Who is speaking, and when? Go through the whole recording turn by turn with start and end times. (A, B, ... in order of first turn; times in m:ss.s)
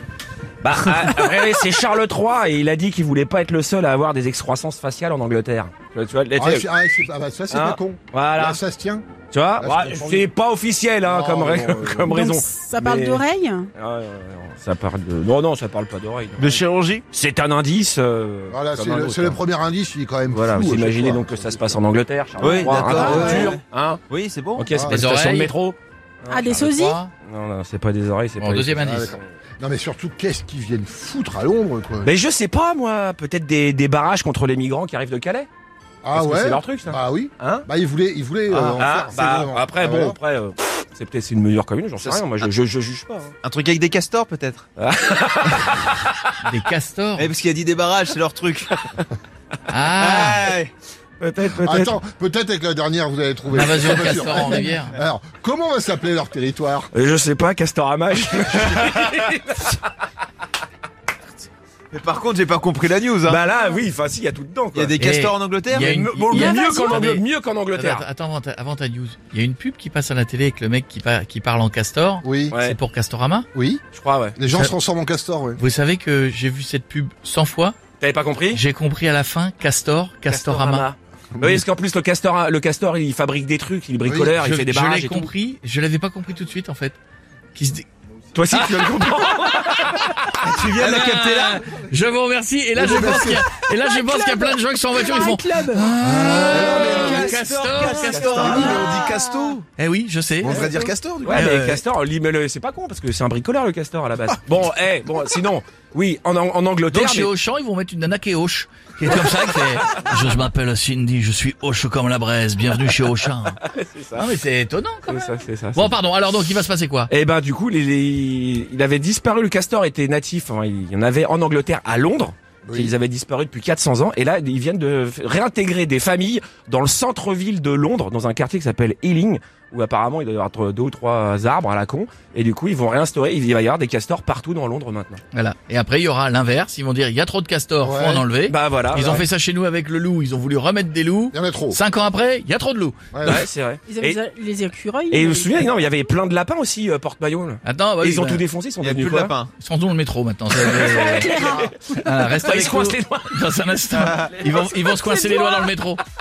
0:00.6-0:06.7 A
0:06.4-0:10.3 B
0:07.5-0:08.6 A
0:09.3-0:19.4 A
0:11.0-0:12.1 B
0:12.0-0:13.7 C
0:16.4-0:17.0 D
0:18.5-0:21.8 B
0:20.3-0:24.0 A
0:22.4-0:24.7 D
0:22.9-0:23.5 E
0:24.6-0:26.4 A
0:24.7-0:25.0 B
0:24.9-0:25.5 E
0:26.3-0:27.0 C
0:26.4-0:27.1 E
0:27.2-0:29.2 A
0:28.4-0:29.2 E
0:28.8-0:32.1 B
0:32.0-0:35.5 A
0:36.0-0:40.2 B
0:36.1-0:37.7 A
0:38.5-0:43.4 A
0:39.1-0:39.5 D
0:42.0-0:42.3 D
0:43.4-0:44.6 D
0:44.8-0:46.2 A
0:46.4-0:47.3 E
0:47.2-0:48.8 D
0:49.7-0:50.5 E
0:50.0-0:50.7 D
0:51.2-0:52.0 A
0:51.5-0:56.9 B
0:53.5-0:55.0 E
0:53.8-0:54.7 D
0:56.9-0:59.8 A
1:01.9-1:03.4 D
1:03.2-1:05.1 A
1:04.8-1:06.6 D
1:05.0-1:07.2 E
1:05.8-1:08.0 A
1:06.5-1:07.0 C
1:07.8-1:13.5 E
1:12.2-1:12.6 B
1:12.5-1:12.8 A
1:13.5-1:13.8 B
1:13.9-1:14.4 A
1:14.4-1:15.6 B
1:14.5-1:14.7 E
1:15.6-1:17.8 E
1:18.0-1:18.6 A
1:18.5-1:20.9 E
1:20.3-1:25.3 A
1:24.0-1:24.4 B
1:24.4-1:27.0 E
1:27.6-1:27.9 E
1:28.3-1:30.1 A
1:28.5-1:38.9 E
1:30.4-1:31.7 D
1:32.8-1:33.4 B
1:35.0-1:39.6 D
1:36.0-1:37.4 B
1:37.9-1:39.1 A
1:39.8-1:40.7 E
1:40.4-1:41.8 D
1:40.5-1:47.3 A
1:41.3-1:41.8 E
1:46.9-1:53.6 E
1:53.6-1:54.3 A
1:54.2-1:57.1 E
1:55.1-1:56.0 A
1:57.1-2:15.2 A
2:02.6-2:02.9 B
2:15.3-2:23.0 E
2:17.8-2:18.3 B
2:18.5-2:19.3 A
2:21.3-2:21.8 B
2:23.1-2:23.5 B
2:23.2-2:24.2 A
2:23.9-2:25.8 C
2:25.1-2:29.4 A
2:27.6-2:28.4 E
2:28.8-2:29.5 D
2:29.6-2:36.0 E
2:30.5-2:33.3 A
2:31.2-2:31.7 C
2:31.4-2:31.7 B
2:34.0-2:34.3 D
2:34.2-2:34.7 A